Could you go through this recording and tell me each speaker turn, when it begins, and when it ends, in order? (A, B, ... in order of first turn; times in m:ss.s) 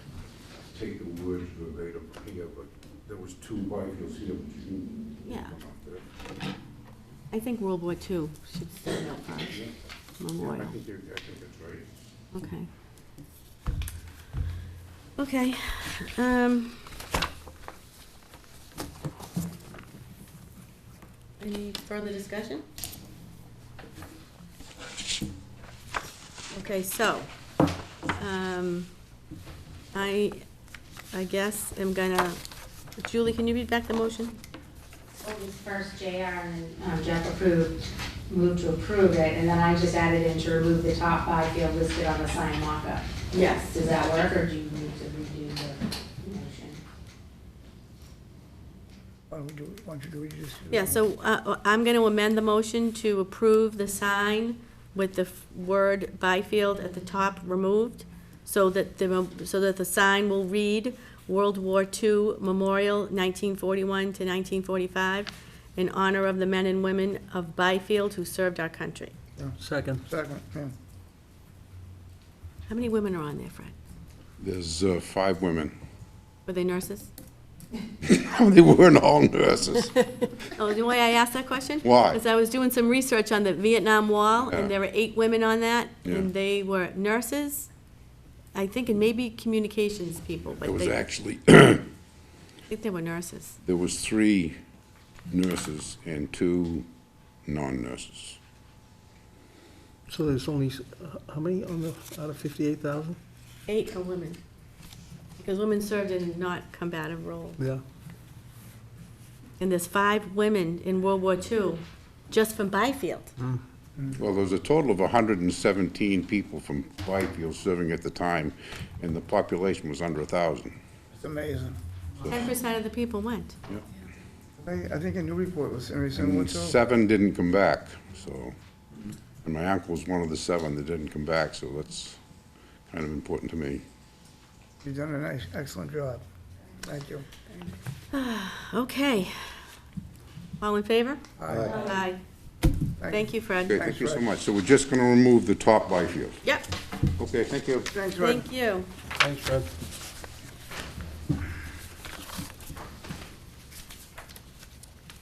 0:00.7-0:06.0 A
0:05.2-0:05.5 B
0:07.3-0:09.6 B
0:10.2-0:10.7 B
0:10.4-0:11.9 A
0:12.3-0:12.7 B
0:15.2-0:17.0 B
0:21.4-0:22.6 B
0:26.5-0:27.3 B
0:28.1-0:28.9 B
0:29.9-0:30.4 B
0:31.1-0:32.4 B
0:33.0-0:34.4 B
0:35.2-0:37.8 C
0:38.3-0:46.8 C
0:43.3-0:43.8 B
0:49.3-0:51.0 D
0:50.7-1:09.1 B
1:09.6-1:10.0 E
1:10.1-1:10.7 D
1:12.7-1:13.7 B
1:14.4-1:15.7 A
1:16.4-1:17.1 B
1:18.0-1:20.0 A
1:20.5-1:27.7 B
1:21.8-1:22.2 A
1:24.5-1:24.7 A
1:28.5-1:31.0 B
1:30.6-1:31.9 A
1:32.7-1:33.6 B
1:33.6-1:34.6 A
1:35.3-1:36.8 A
1:37.4-1:38.4 A
1:40.1-1:43.2 E
1:43.7-1:44.4 B
1:45.4-1:47.6 B
1:49.6-1:53.3 B
1:54.2-2:00.8 A
2:01.2-2:01.8 D
2:02.2-2:02.5 A
2:02.2-2:03.6 B
2:04.6-2:06.7 D
2:06.1-2:08.5 A
2:09.4-2:12.2 A
2:12.9-2:13.8 A
2:14.8-2:16.2 D
2:16.8-2:17.5 D
2:18.1-2:19.6 B
2:20.6-2:22.2 B
2:21.4-2:21.9 D
2:23.0-2:24.2 D
2:23.0-2:23.7 B
2:23.7-2:26.4 A
2:27.2-2:27.9 A
2:27.9-2:28.4 D
2:28.1-2:28.9 B
2:29.2-2:29.7 E